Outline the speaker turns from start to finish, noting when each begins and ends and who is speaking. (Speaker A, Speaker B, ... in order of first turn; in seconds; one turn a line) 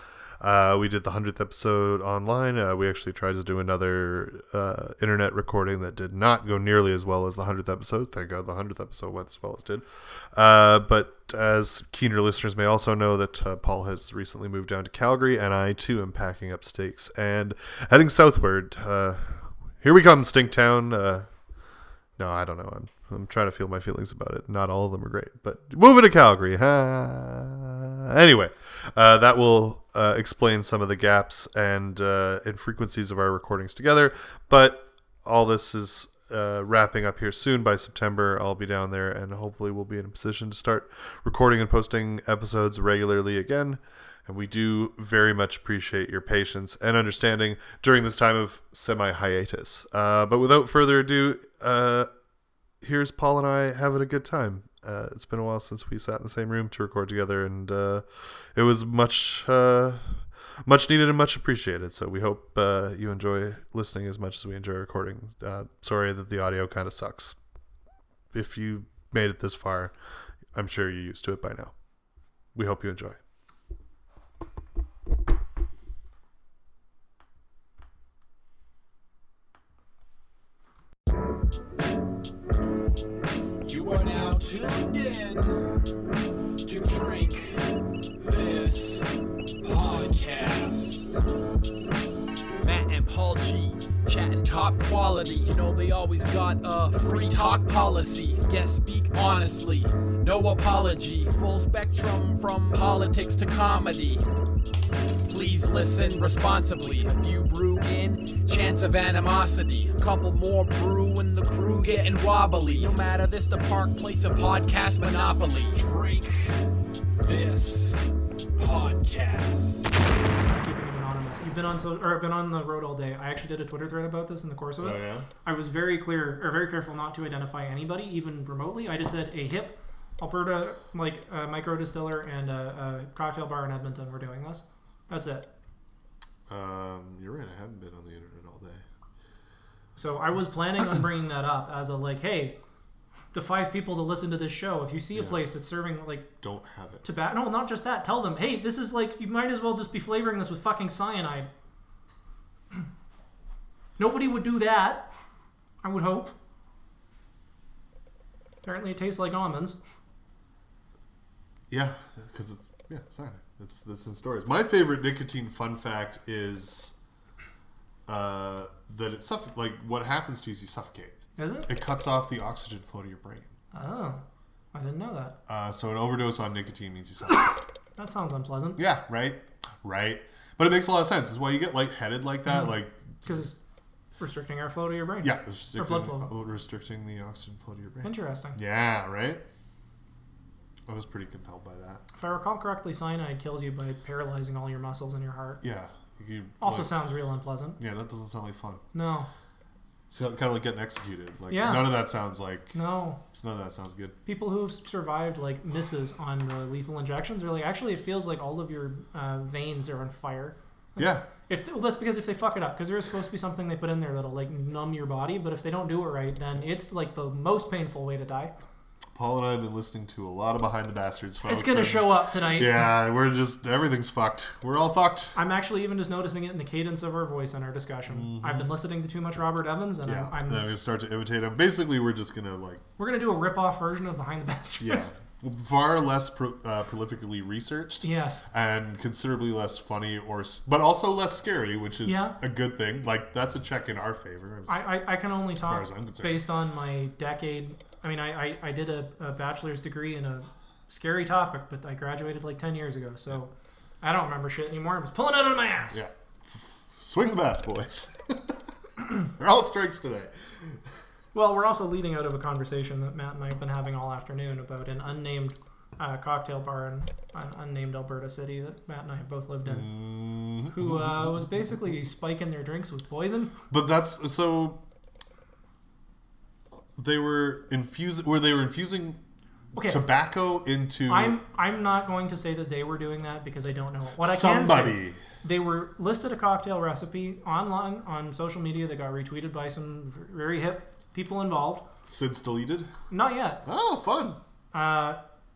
Speaker A: 0.4-21.3
Speaker A: 22.2-52.1
Speaker A: 52.8-67.4
Speaker A: 68.3-69.9
Speaker A: 70.5-71.7
Speaker A: 72.5-73.2
Speaker B: 83.6-85.7
Speaker B: 86.6-87.6
Speaker B: 88.2-89.1
Speaker B: 89.6-91.1
Speaker B: 92.6-104.2
Speaker B: 105.3-118.0
Speaker B: 118.5-120.0
Speaker C: 120.5-135.5
Speaker A: 124.8-125.3
Speaker A: 136.5-138.8
Speaker C: 139.9-142.6
Speaker C: 143.3-146.3
Speaker A: 145.1-145.4
Speaker A: 146.4-147.1
Speaker C: 147.0-151.5
Speaker C: 154.0-155.1
Speaker C: 155.8-156.3
Speaker C: 158.6-159.8
Speaker A: 161.7-166.9
Speaker A: 168.1-173.5
Speaker C: 171.3-171.7
Speaker C: 173.7-174.2
Speaker C: 174.7-175.3
Speaker A: 175.5-177.6
Speaker C: 178.0-178.8
Speaker A: 178.8-183.5
Speaker C: 183.2-183.6
Speaker C: 184.2-186.3
Speaker A: 185.2-189.4
Speaker C: 188.0-188.6
Speaker A: 190.9-192.0
Speaker C: 192.1-195.6
Speaker A: 195.6-196.9
Speaker C: 196.6-197.8
Speaker A: 197.8-198.8
Speaker C: 198.9-199.3
Speaker A: 200.1-202.8
Speaker C: 201.5-202.0
Speaker C: 202.7-203.2
Speaker A: 203.3-204.2
Speaker C: 204.2-218.6
Speaker A: 211.0-211.2
Speaker A: 219.1-225.4
Speaker C: 221.4-222.9
Speaker C: 225.3-230.7
Speaker A: 228.1-228.7
Speaker A: 230.0-232.8
Speaker C: 233.0-235.1
Speaker A: 234.8-244.9
Speaker C: 238.0-238.4
Speaker C: 242.0-242.3
Speaker C: 244.7-253.5
Speaker A: 245.6-246.4
Speaker C: 254.0-256.0
Speaker A: 255.9-258.6
Speaker A: 259.1-260.8
Speaker C: 261.3-269.9
Speaker A: 269.6-271.5
Speaker C: 270.7-273.6
Speaker A: 273.7-274.8
Speaker A: 276.9-279.2
Speaker C: 279.7-280.0
Speaker A: 279.8-281.4
Speaker C: 281.1-291.8
Speaker A: 284.2-285.2
Speaker A: 292.1-292.9
Speaker C: 293.1-293.6
Speaker A: 293.6-294.4
Speaker C: 294.7-295.2